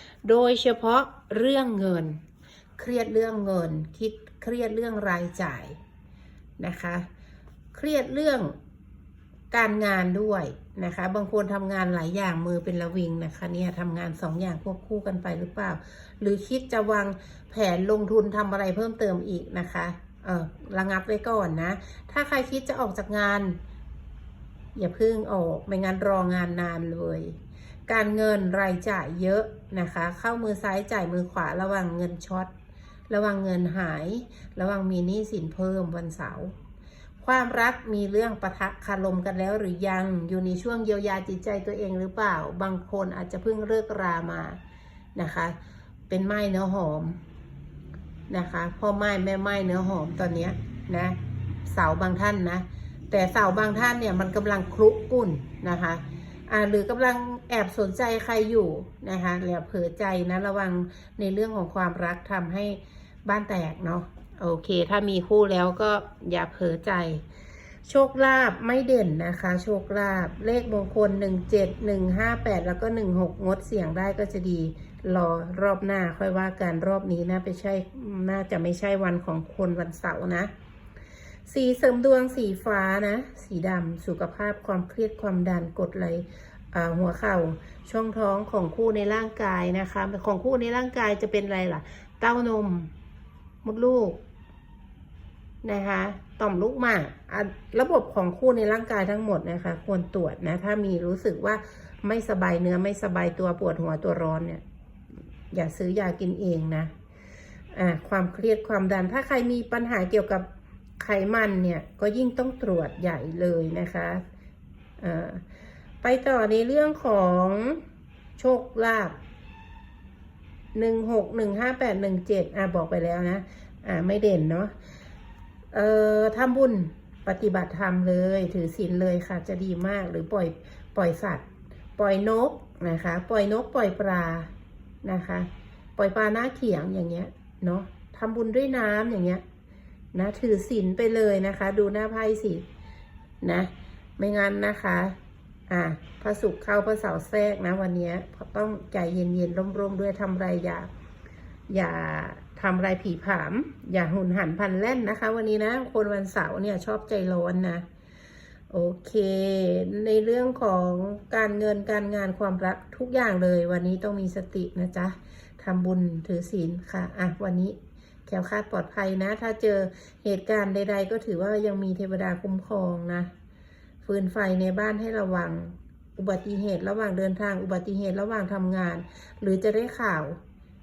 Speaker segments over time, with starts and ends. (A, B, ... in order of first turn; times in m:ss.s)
0:00.2-0:02.2 A
0:02.8-0:05.8 A
0:06.6-0:07.0 A
0:07.7-0:08.5 A
0:09.5-0:23.6 A
0:24.7-0:32.5 A
0:33.1-0:36.5 A
0:37.2-0:44.6 A
0:45.2-0:45.6 A
0:46.1-0:47.2 A
0:48.3-1:07.2 A
1:07.8-1:20.5 A
1:21.5-1:32.9 A
1:33.6-1:34.2 A
1:35.6-1:44.6 A
1:45.5-1:46.9 A
1:47.7-1:50.5 A
1:51.0-1:54.2 A
1:55.0-1:55.4 A
1:56.0-1:57.8 A
1:58.4-1:59.2 A
2:00.7-2:04.7 A
2:05.7-2:11.4 A
2:12.0-2:14.5 A
2:15.0-2:19.4 A
2:20.1-2:22.6 A
2:23.4-2:25.2 A
2:25.7-2:30.9 A
2:31.7-2:37.8 A
2:38.7-2:53.3 A
2:54.0-3:00.4 A